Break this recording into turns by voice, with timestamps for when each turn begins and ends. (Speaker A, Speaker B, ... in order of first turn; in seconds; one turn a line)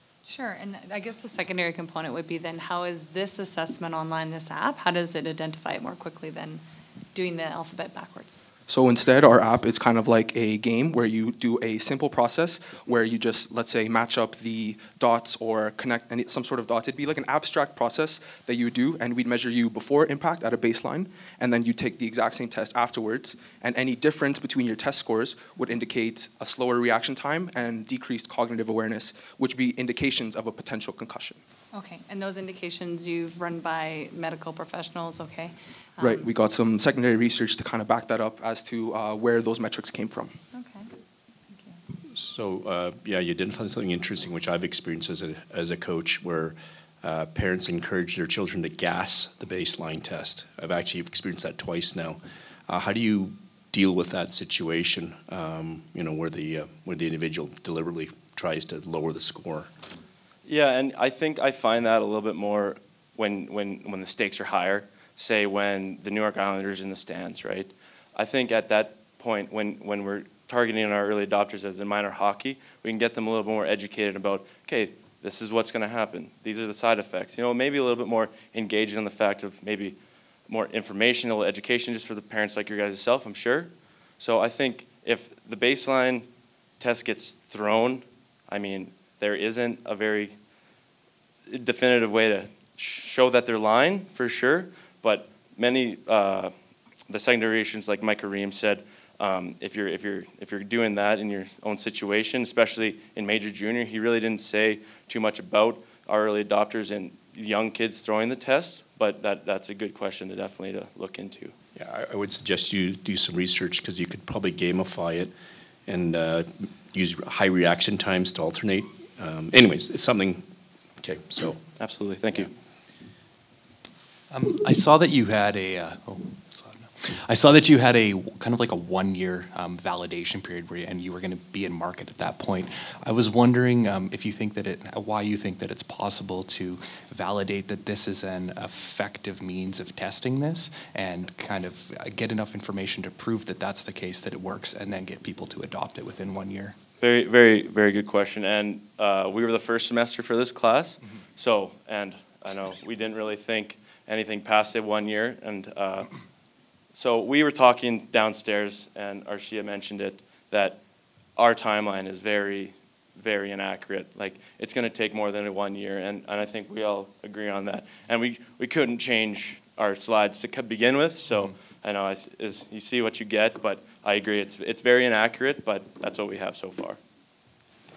Speaker A: 0.3-6.6
Speaker A: 7.2-8.4
Speaker B: 8.7-31.4
Speaker A: 31.7-36.3
Speaker B: 36.0-40.4
Speaker A: 40.5-40.9
Speaker A: 41.5-41.8
Speaker C: 42.1-59.7
Speaker D: 60.5-80.0
Speaker D: 80.5-86.3
Speaker D: 86.8-90.3
Speaker D: 91.5-96.5
Speaker D: 97.1-111.5
Speaker C: 111.8-115.3
Speaker C: 115.9-120.5
Speaker C: 121.0-121.6
Speaker D: 121.8-122.5
Speaker E: 124.3-146.8
Speaker D: 147.0-156.1
Speaker D: 156.9-160.8
Speaker D: 161.4-177.0